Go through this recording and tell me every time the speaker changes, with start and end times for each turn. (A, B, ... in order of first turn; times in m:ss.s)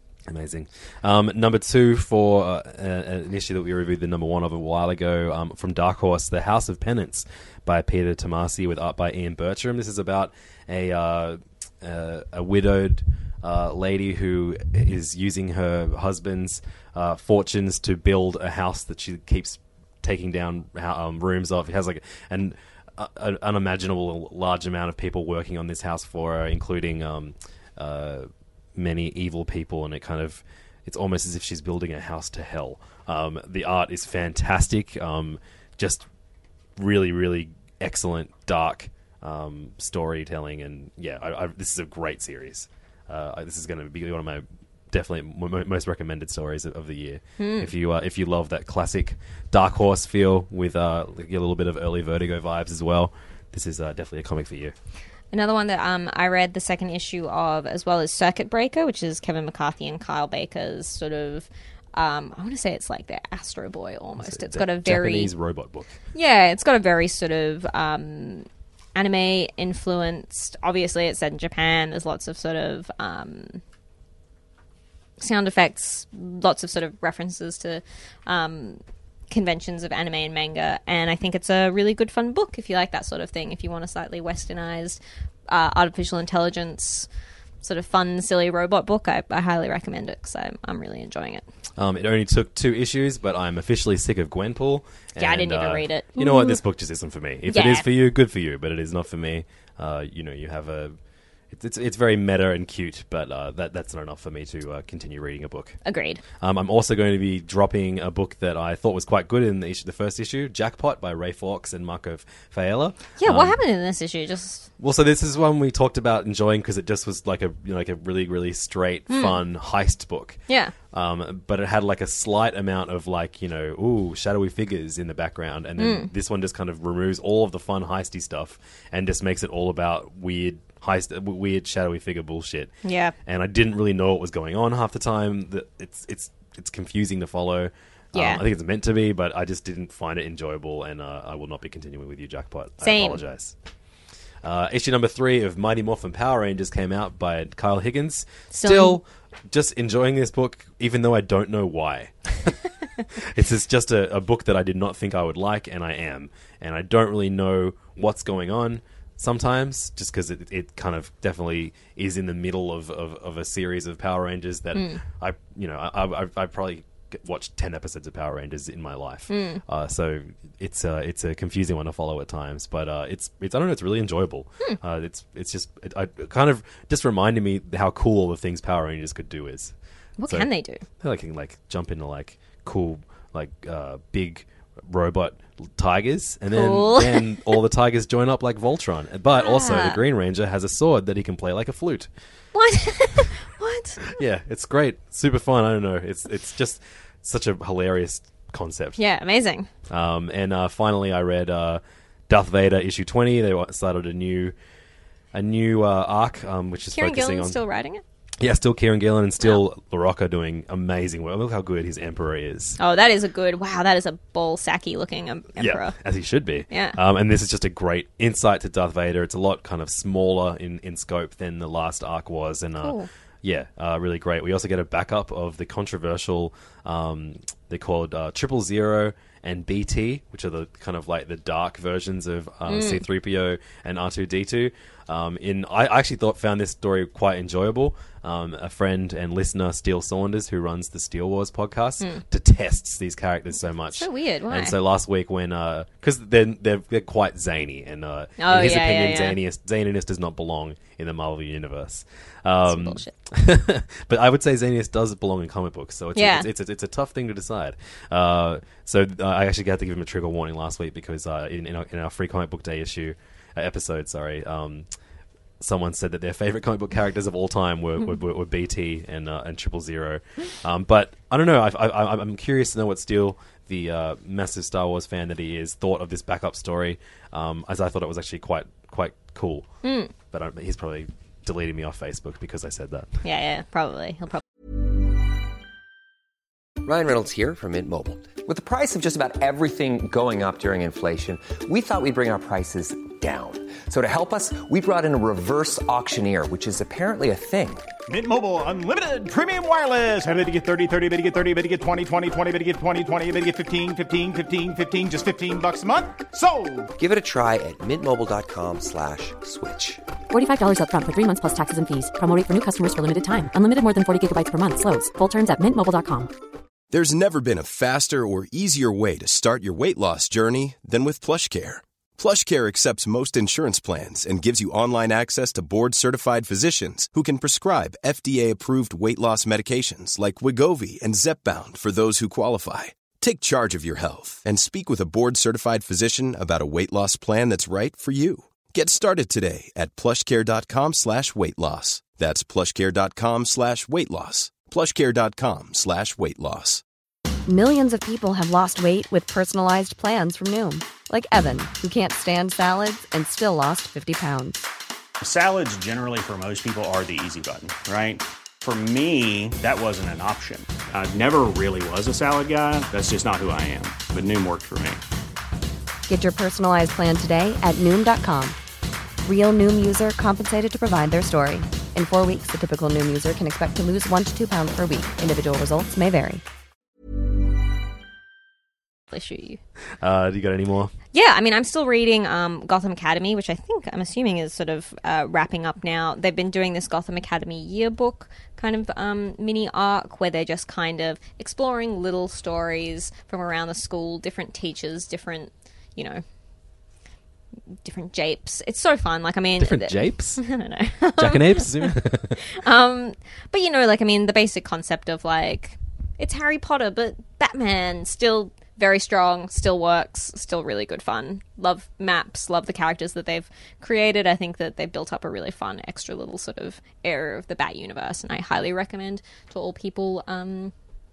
0:00.3-0:36.1 A
0:36.8-0:54.7 A
0:47.4-0:47.7 B
0:55.3-1:05.3 B
1:04.2-1:05.9 A
1:06.1-1:13.6 B
1:15.2-1:27.1 B
1:27.6-1:31.4 B
1:31.8-1:41.0 A
1:35.2-1:36.6 B
1:37.5-1:37.9 B
1:41.5-1:45.8 A
1:45.8-1:46.2 B
1:46.4-1:53.6 A
1:53.2-1:54.7 B
1:54.8-2:00.4 A
1:59.1-1:59.4 B
2:00.5-2:00.7 B
2:00.9-2:12.7 A
2:05.8-2:06.1 B
2:12.8-2:13.1 B
2:13.2-2:23.5 A
2:18.1-2:18.4 B
2:22.8-2:23.2 B
2:24.4-2:32.6 A
2:28.5-2:29.0 B
2:33.2-2:59.7 A
2:44.7-2:45.0 B
2:49.3-2:49.6 B
3:00.2-3:00.8 B
3:01.0-3:12.1 A
3:06.5-3:07.6 B
3:09.3-3:10.0 B
3:12.5-3:14.2 B
3:14.1-3:19.0 A
3:19.0-3:19.7 B
3:19.9-3:24.6 A
3:25.3-3:27.6 A
3:26.9-3:28.0 B
3:28.4-3:32.8 A
3:32.8-3:36.0 B
3:35.6-4:24.9 A
3:36.7-3:37.0 B
3:42.8-3:43.1 B
3:52.7-3:53.0 B
4:03.9-4:04.8 B
4:08.4-4:09.4 B
4:12.6-4:13.1 B
4:16.2-4:16.5 B
4:25.6-4:39.7 A
4:39.8-4:40.1 B
4:40.3-4:43.2 A
4:43.2-4:44.4 B
4:46.8-4:57.9 C
4:58.1-5:06.9 D
5:07.0-5:10.0 C
5:10.3-5:16.3 E
5:16.9-5:46.8 F
5:47.4-5:54.6 G
5:55.2-6:05.0 H
6:06.1-6:08.6 G
6:09.2-6:16.4 G
6:19.1-6:19.6 B
6:20.0-6:20.9 A
6:21.1-6:36.2 B
6:37.8-7:00.7 B
6:39.6-6:40.4 A
6:41.2-6:42.4 A